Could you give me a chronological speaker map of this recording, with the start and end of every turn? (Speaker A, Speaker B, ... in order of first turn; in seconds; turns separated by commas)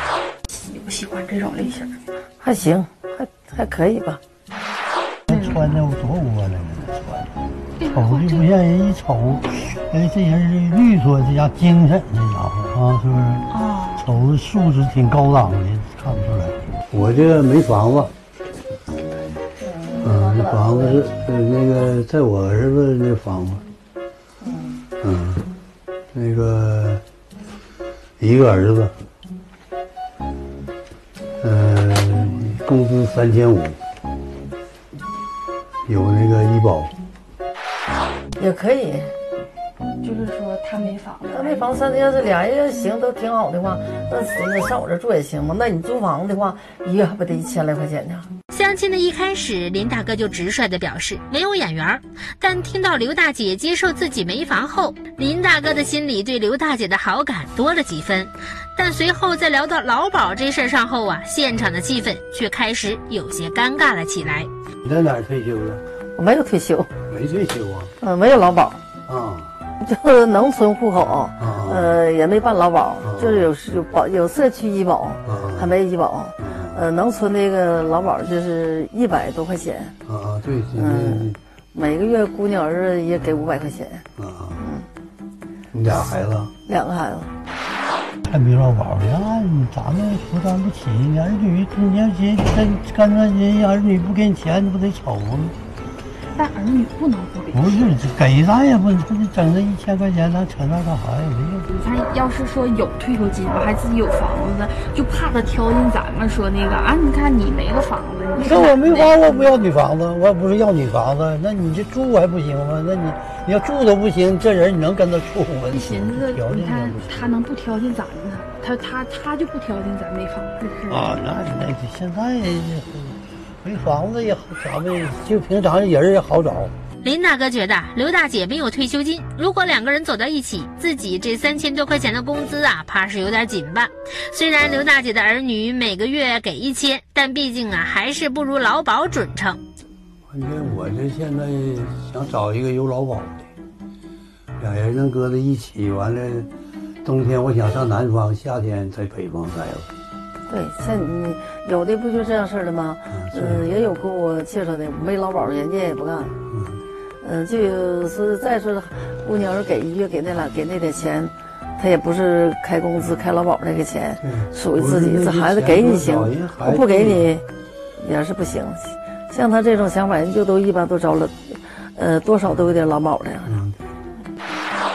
Speaker A: 0.5-2.0, Speaker B: 2.4-4.2, Speaker C: 5.3-18.1, Speaker A: 5.3-5.8, Speaker A: 7.8-8.5, Speaker A: 13.5-14.0, Speaker B: 19.6-21.0, Speaker C: 20.0-23.6, Speaker B: 24.4-24.8, Speaker C: 25.0-25.4, Speaker C: 26.1-27.0, Speaker C: 28.2-28.9, Speaker C: 31.4-33.8, Speaker C: 35.9-36.9, Speaker B: 38.4-39.1, Speaker A: 40.0-41.6, Speaker B: 41.3-48.3, Speaker D: 48.5-64.5, Speaker C: 64.8-65.8, Speaker B: 66.2-66.9, Speaker C: 67.1-67.9, Speaker B: 68.0-68.8, Speaker C: 69.1-69.5, Speaker B: 69.8-79.9, Speaker C: 71.4-72.0, Speaker C: 73.0-73.5, Speaker C: 75.2-75.7, Speaker C: 76.4-76.8, Speaker C: 80.0-81.4, Speaker B: 80.7-84.0, Speaker C: 84.2-84.6, Speaker B: 84.6-84.9, Speaker C: 85.7-86.5, Speaker B: 86.7-87.3, Speaker C: 88.2-95.5, Speaker A: 96.3-98.0, Speaker C: 97.5-101.7, Speaker A: 101.7-109.5, Speaker C: 108.3-117.3, Speaker A: 115.7-121.1, Speaker C: 120.9-126.7, Speaker D: 127.0-139.6, Speaker C: 140.3-143.5, Speaker C: 144.6-146.5, Speaker C: 147.0-149.9, Speaker B: 150.5-156.3, Speaker C: 153.1-153.6, Speaker C: 156.5-156.8, Speaker B: 157.2-167.4, Speaker C: 164.2-167.3, Speaker B: 167.9-173.6, Speaker C: 173.4-173.8